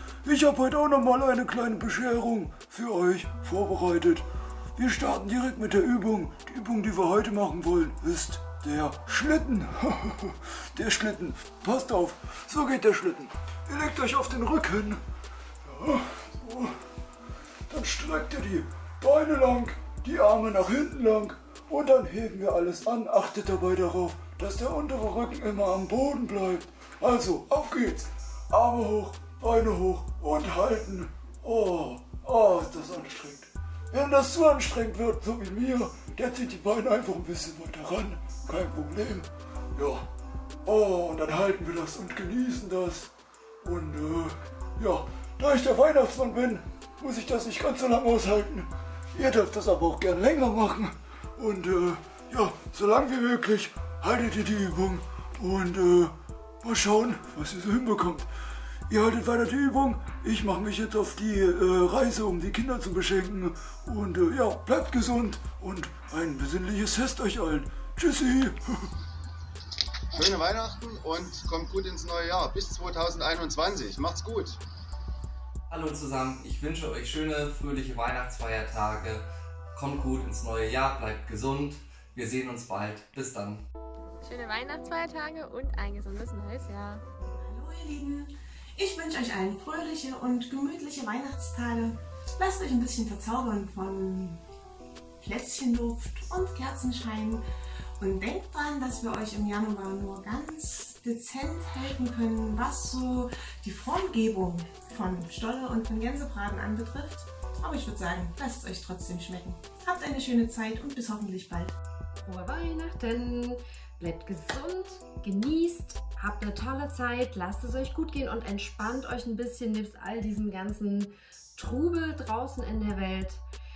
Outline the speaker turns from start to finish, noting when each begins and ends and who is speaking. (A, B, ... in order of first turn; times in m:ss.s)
0:00.2-0:04.2 A
0:04.8-0:15.0 A
0:15.6-0:16.7 A
0:17.7-0:40.1 A
0:40.6-0:43.1 A
0:43.6-0:58.3 A
0:58.9-1:08.9 A
1:10.1-1:14.6 B
1:15.7-1:23.6 C
1:24.2-1:27.0 D
1:27.4-1:34.4 E
1:35.2-1:37.4 E
1:38.0-1:51.7 E
1:52.2-2:03.4 F